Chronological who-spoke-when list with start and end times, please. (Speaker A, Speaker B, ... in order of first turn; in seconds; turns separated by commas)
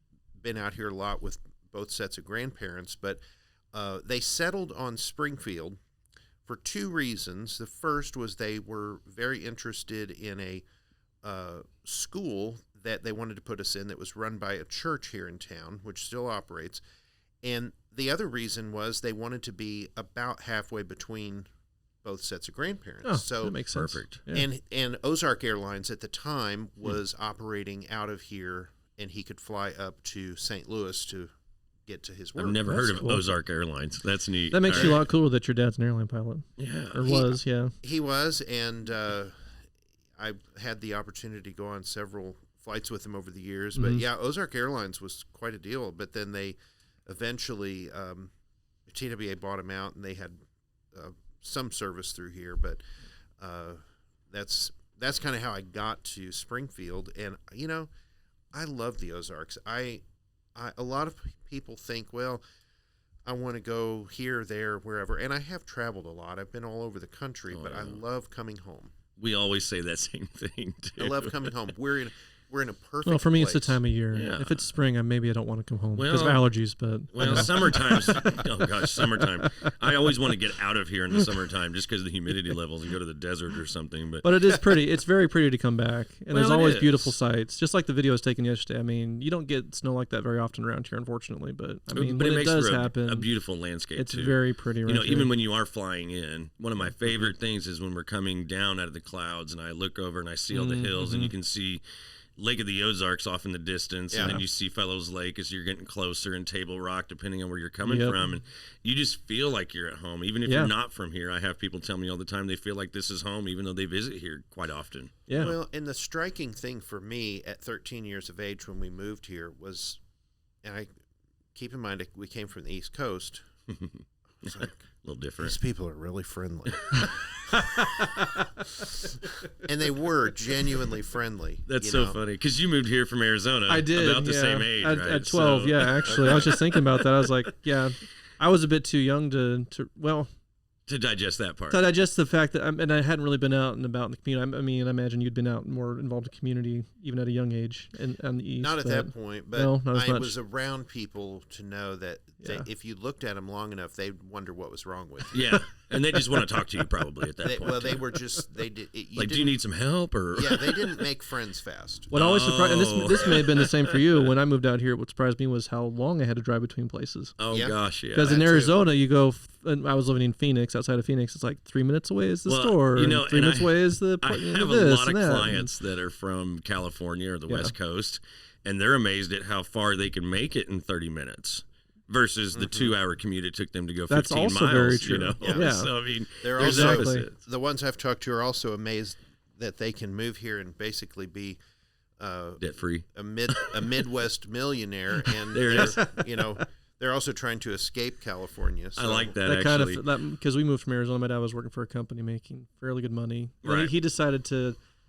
Speaker A: 0.4-3.2, Speaker A: 3.7-5.8, Speaker A: 6.4-10.6, Speaker A: 11.2-16.8, Speaker A: 17.4-21.5, Speaker A: 22.0-23.7, Speaker B: 23.0-24.4, Speaker C: 23.7-24.2, Speaker A: 24.3-31.3, Speaker A: 31.9-33.2, Speaker C: 32.4-35.0, Speaker B: 32.8-33.2, Speaker B: 34.5-37.7, Speaker A: 34.7-35.0, Speaker C: 36.6-37.0, Speaker A: 37.0-39.4, Speaker A: 40.2-48.3, Speaker B: 43.7-44.0, Speaker A: 48.9-50.4, Speaker A: 50.9-52.8, Speaker A: 53.4-53.8, Speaker A: 54.3-57.9, Speaker A: 58.5-60.0, Speaker A: 60.5-62.4, Speaker A: 63.2-68.9, Speaker C: 67.5-68.0, Speaker C: 69.2-71.5, Speaker A: 71.0-73.8, Speaker B: 73.0-79.2, Speaker C: 74.1-74.7, Speaker C: 75.9-76.5, Speaker C: 77.1-84.8, Speaker B: 84.2-93.3, Speaker C: 86.3-87.1, Speaker C: 91.9-101.8, Speaker B: 93.9-95.3, Speaker B: 100.5-101.3, Speaker C: 102.4-115.5, Speaker A: 104.1-104.4, Speaker B: 104.2-104.4, Speaker B: 107.8-108.3, Speaker B: 110.4-110.7, Speaker B: 115.3-115.5, Speaker A: 115.3-120.0, Speaker A: 120.6-120.9, Speaker A: 121.5-123.4, Speaker C: 123.7-125.6, Speaker A: 124.4-124.8, Speaker A: 125.4-127.3, Speaker C: 126.9-127.6, Speaker A: 129.6-132.2, Speaker C: 131.7-137.1, Speaker B: 133.7-140.3, Speaker A: 136.1-136.6, Speaker C: 140.9-141.8, Speaker B: 141.7-150.3, Speaker A: 148.6-155.7, Speaker B: 152.4-152.7, Speaker C: 155.3-158.0, Speaker A: 157.4-159.6, Speaker C: 159.2-161.0, Speaker A: 160.3-162.1, Speaker B: 162.1-167.4, Speaker C: 162.1-164.2, Speaker C: 167.4-168.4, Speaker A: 167.5-168.8, Speaker B: 168.1-175.7, Speaker C: 172.4-187.4, Speaker B: 177.5-177.7, Speaker A: 182.6-182.9, Speaker B: 184.1-185.9, Speaker A: 185.4-185.8, Speaker A: 186.4-191.6, Speaker B: 186.6-187.3, Speaker A: 192.2-199.4, Speaker C: 192.6-194.0, Speaker C: 195.5-196.1, Speaker C: 198.9-200.0, Speaker B: 199.4-204.8, Speaker C: 203.6-203.9